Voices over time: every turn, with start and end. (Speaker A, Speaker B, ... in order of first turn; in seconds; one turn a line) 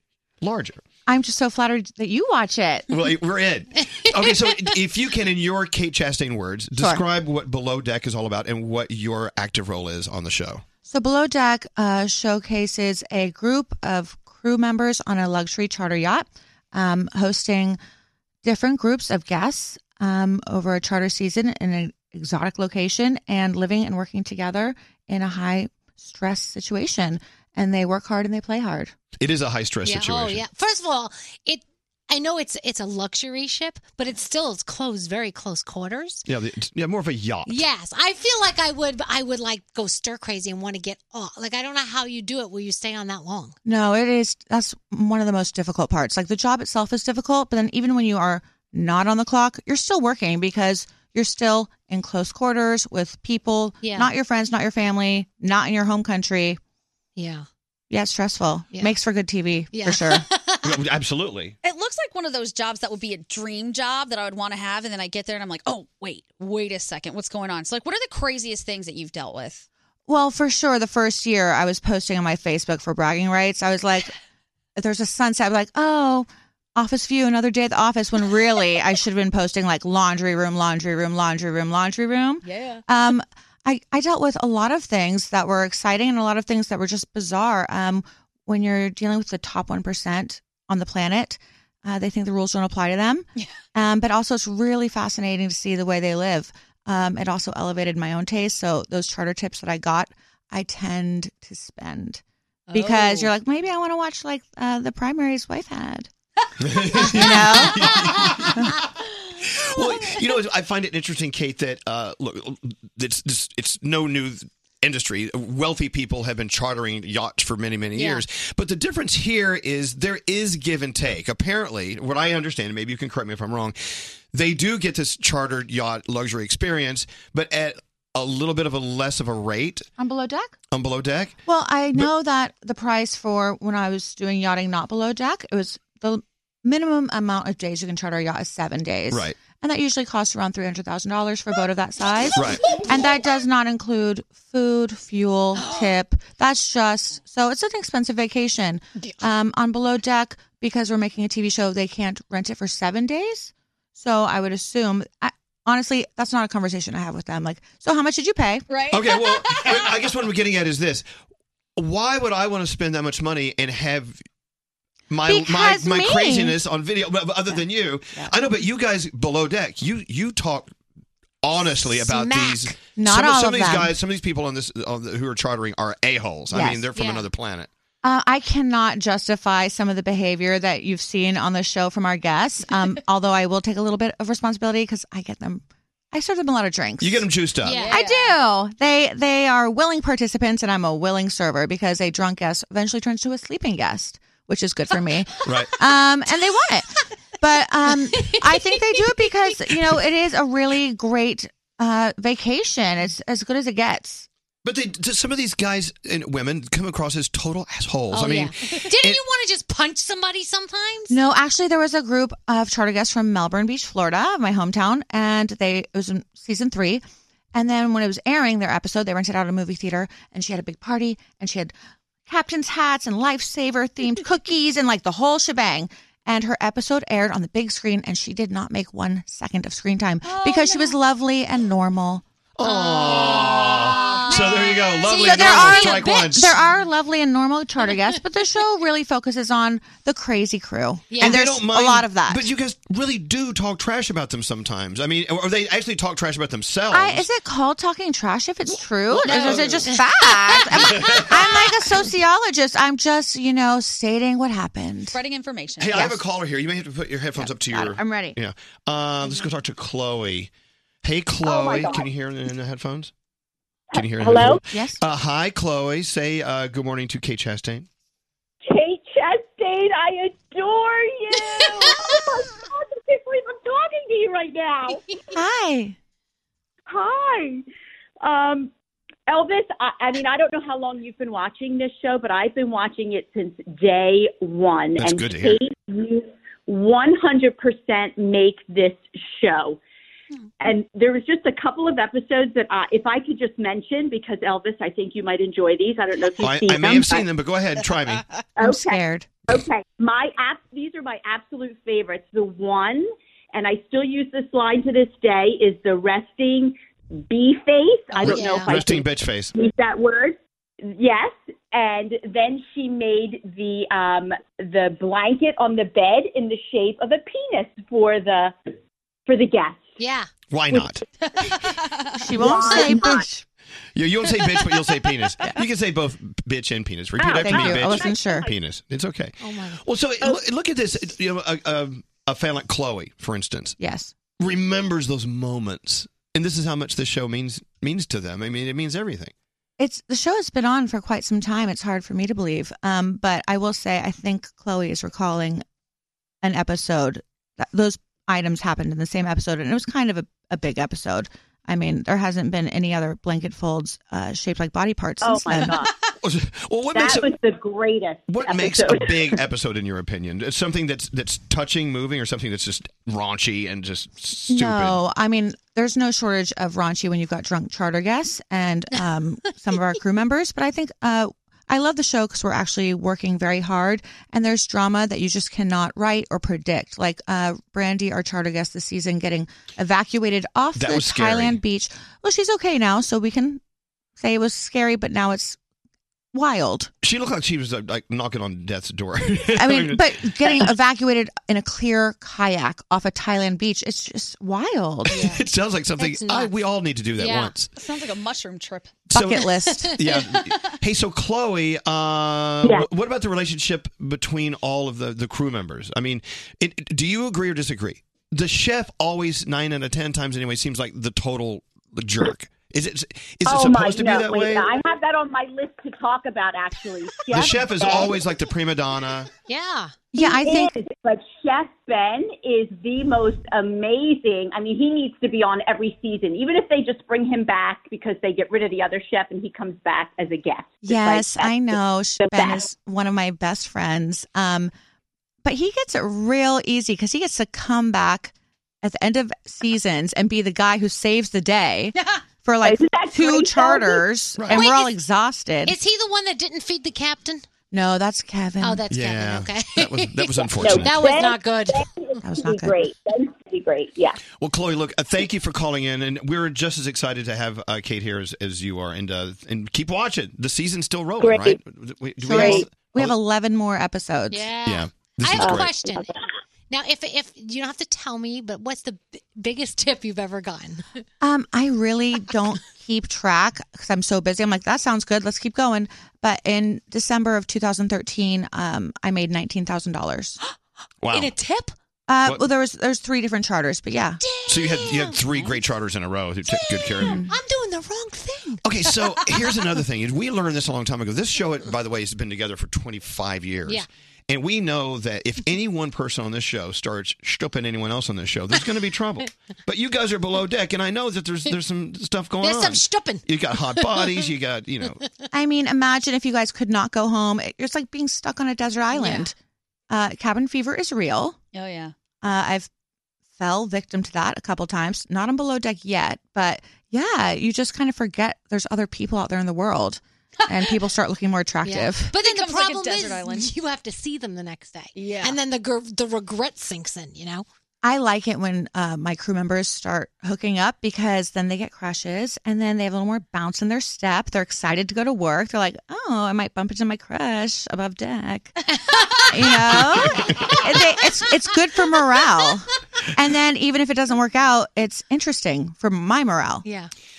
Speaker A: 0.4-0.8
Speaker B: 1.1-2.9
Speaker A: 2.9-10.6
Speaker C: 4.1-4.5
Speaker B: 6.7-7.0
Speaker B: 10.8-17.8
Speaker B: 18.4-28.9
Speaker A: 29.2-30.4
Speaker C: 29.8-36.2
Speaker A: 36.2-37.6
Speaker C: 37.5-43.5
Speaker B: 43.6-56.6
Speaker C: 53.8-54.1
Speaker C: 57.1-57.5
Speaker B: 57.9-60.2
Speaker C: 58.7-59.0
Speaker C: 59.7-60.7
Speaker A: 60.6-61.5
Speaker D: 61.6-69.7
Speaker B: 70.1-74.1
Speaker B: 74.8-106.1
Speaker D: 82.5-82.8
Speaker C: 102.7-103.3
Speaker A: 106.6-108.6
Speaker B: 107.0-107.9
Speaker C: 107.8-108.4
Speaker A: 109.4-129.9
Speaker C: 118.0-118.2
Speaker B: 130.0-130.6
Speaker A: 130.7-131.4
Speaker B: 131.4-158.7
Speaker A: 139.1-139.3
Speaker A: 142.3-142.6
Speaker C: 145.6-145.9
Speaker D: 158.7-160.1
Speaker A: 158.9-161.1
Speaker A: 161.8-164.2
Speaker A: 165.1-170.7
Speaker B: 165.2-166.6
Speaker A: 171.4-177.7
Speaker C: 172.0-172.7
Speaker B: 172.9-173.9
Speaker B: 176.5-176.9
Speaker C: 176.9-177.3
Speaker B: 178.0-187.3
Speaker A: 187.0-188.0
Speaker C: 187.6-188.4
Speaker B: 187.9-196.9
Speaker A: 195.4-195.7
Speaker B: 197.4-204.3
Speaker C: 197.9-199.9
Speaker A: 204.6-209.2
Speaker C: 208.1-211.2
Speaker B: 211.1-221.7
Speaker B: 222.3-232.2
Speaker C: 230.2-230.9
Speaker D: 230.3-230.8
Speaker A: 232.6-236.6
Speaker C: 232.6-236.7
Speaker B: 235.1-242.5
Speaker C: 241.1-241.4
Speaker A: 241.2-247.2
Speaker B: 246.9-255.2
Speaker A: 249.1-249.9
Speaker C: 249.2-252.1
Speaker A: 250.8-251.3
Speaker D: 255.1-256.1
Speaker A: 255.8-260.5
Speaker B: 255.8-256.2
Speaker B: 257.4-258.4
Speaker A: 261.0-263.1
Speaker E: 261.4-262.1
Speaker E: 263.9-264.6
Speaker A: 263.9-267.9
Speaker B: 264.6-265.0
Speaker E: 268.6-275.1
Speaker B: 275.3-275.9
Speaker E: 276.9-277.6
Speaker E: 278.2-278.7
Speaker E: 279.3-289.8
Speaker A: 285.0-285.6
Speaker E: 290.6-297.2
Speaker A: 296.4-298.2
Speaker E: 298.6-306.7
Speaker B: 298.6-299.4
Speaker E: 307.3-318.5
Speaker A: 308.1-309.5
Speaker C: 308.2-308.7
Speaker E: 319.3-320.0
Speaker C: 320.0-320.3
Speaker A: 320.5-321.0
Speaker C: 321.2-321.6
Speaker B: 322.2-323.4
Speaker E: 322.3-323.3
Speaker A: 323.9-333.8
Speaker E: 327.2-328.5
Speaker B: 327.3-328.5
Speaker C: 329.4-329.8
Speaker B: 333.8-334.1
Speaker A: 334.4-339.3
Speaker B: 339.8-345.6
Speaker B: 346.4-355.8
Speaker E: 355.2-355.9
Speaker A: 356.2-357.3
Speaker E: 356.9-359.4
Speaker A: 358.3-365.0
Speaker B: 364.5-383.6
Speaker A: 380.7-381.6
Speaker B: 384.2-385.6
Speaker B: 386.3-386.9
Speaker A: 387.0-390.7
Speaker B: 389.6-395.2
Speaker C: 395.1-395.4
Speaker A: 395.1-397.7
Speaker C: 396.0-396.5
Speaker C: 397.2-397.5
Speaker D: 397.8-399.0
Speaker B: 399.1-399.9
Speaker A: 399.1-414.7
Speaker C: 399.7-400.4
Speaker E: 413.4-418.1
Speaker A: 417.3-419.3
Speaker C: 419.5-419.9
Speaker B: 420.1-420.7
Speaker E: 420.2-432.6
Speaker B: 430.8-434.7
Speaker B: 435.4-445.8
Speaker E: 442.6-444.0
Speaker A: 444.4-444.6
Speaker C: 444.5-444.9
Speaker C: 445.6-447.4
Speaker B: 447.7-448.8
Speaker C: 448.6-451.9
Speaker A: 448.9-451.0
Speaker E: 450.6-454.2
Speaker B: 452.2-452.7
Speaker A: 454.4-463.1
Speaker E: 461.2-461.6
Speaker B: 462.2-464.5
Speaker E: 462.3-462.6
Speaker C: 464.3-466.1
Speaker A: 464.6-465.7
Speaker C: 466.7-470.9
Speaker B: 471.2-480.4
Speaker A: 481.0-481.3
Speaker C: 481.1-481.7
Speaker B: 482.1-484.2
Speaker C: 484.2-485.6
Speaker A: 484.4-487.2
Speaker C: 486.5-489.0
Speaker B: 487.0-487.3
Speaker A: 488.6-505.0
Speaker C: 502.4-504.2
Speaker B: 505.3-509.3
Speaker C: 508.9-509.3
Speaker B: 509.9-511.4
Speaker D: 511.5-511.9
Speaker B: 512.2-512.7
Speaker B: 513.3-522.1
Speaker C: 521.6-527.5
Speaker D: 522.1-523.5
Speaker D: 525.0-525.4
Speaker B: 527.8-538.5
Speaker B: 539.3-546.6
Speaker A: 539.7-540.5
Speaker C: 546.6-546.9